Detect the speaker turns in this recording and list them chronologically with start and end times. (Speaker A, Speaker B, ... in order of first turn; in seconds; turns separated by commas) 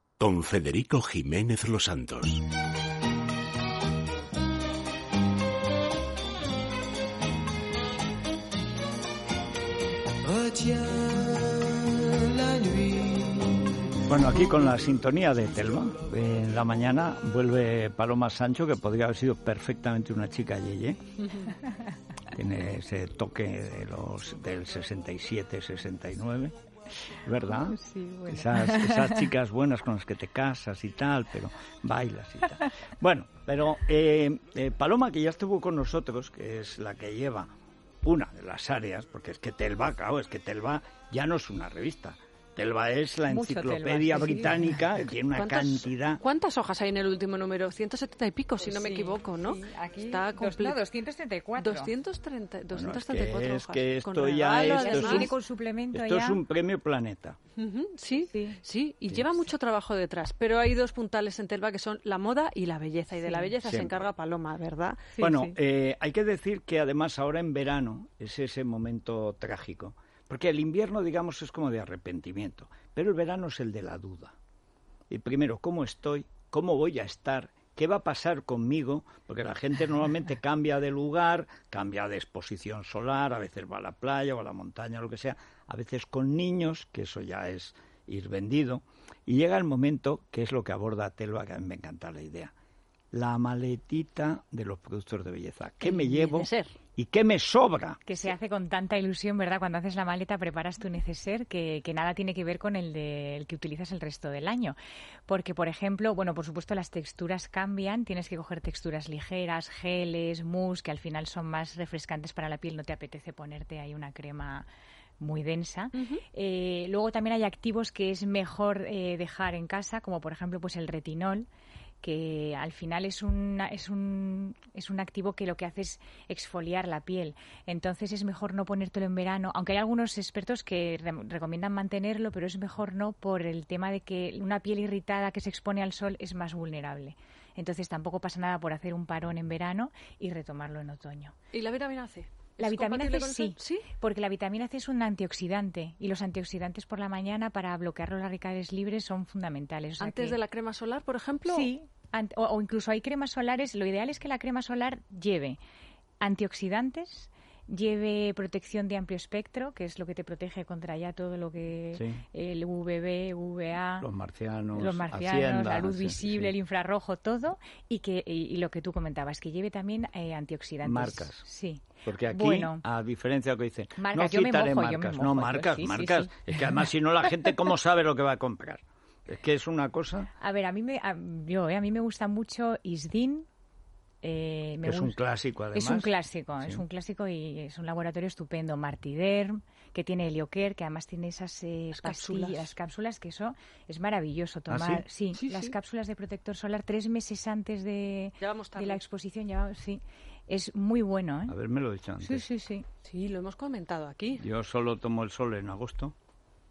Speaker A: 0.2-2.4, Speaker B: 14.1-21.0, Speaker B: 22.3-26.6, Speaker B: 27.2-27.8, Speaker C: 27.5-29.3, Speaker B: 28.3-37.5, Speaker B: 38.0-46.2, Speaker C: 43.3-44.9, Speaker D: 45.3-50.8, Speaker C: 48.6-51.9, Speaker D: 51.6-55.3, Speaker B: 52.7-55.3, Speaker C: 54.7-56.4, Speaker B: 55.9-57.4, Speaker D: 57.6-65.1, Speaker C: 58.2-58.6, Speaker C: 63.2-63.5, Speaker B: 63.6-64.1, Speaker C: 65.1-65.5, Speaker B: 65.2-74.3, Speaker B: 75.1-92.5, Speaker B: 93.1-98.0, Speaker D: 95.8-96.7, Speaker C: 98.0-104.7, Speaker C: 105.3-114.7, Speaker C: 115.2-121.5, Speaker D: 115.9-116.2, Speaker C: 122.0-141.4, Speaker D: 141.5-143.9, Speaker C: 142.6-150.4, Speaker D: 150.0-151.7, Speaker C: 151.5-155.6, Speaker C: 156.2-164.1, Speaker B: 161.9-162.2, Speaker B: 164.0-166.5, Speaker C: 164.7-172.8, Speaker B: 170.8-171.5, Speaker B: 172.1-180.3, Speaker C: 174.0-176.8, Speaker C: 180.4-183.5, Speaker C: 184.2-185.2, Speaker B: 184.8-186.8, Speaker C: 185.7-201.6, Speaker D: 191.9-192.8, Speaker B: 194.7-195.1, Speaker D: 195.3-195.8, Speaker D: 198.4-199.0, Speaker B: 201.5-202.4, Speaker C: 202.2-202.9, Speaker D: 203.1-204.4, Speaker B: 204.4-206.2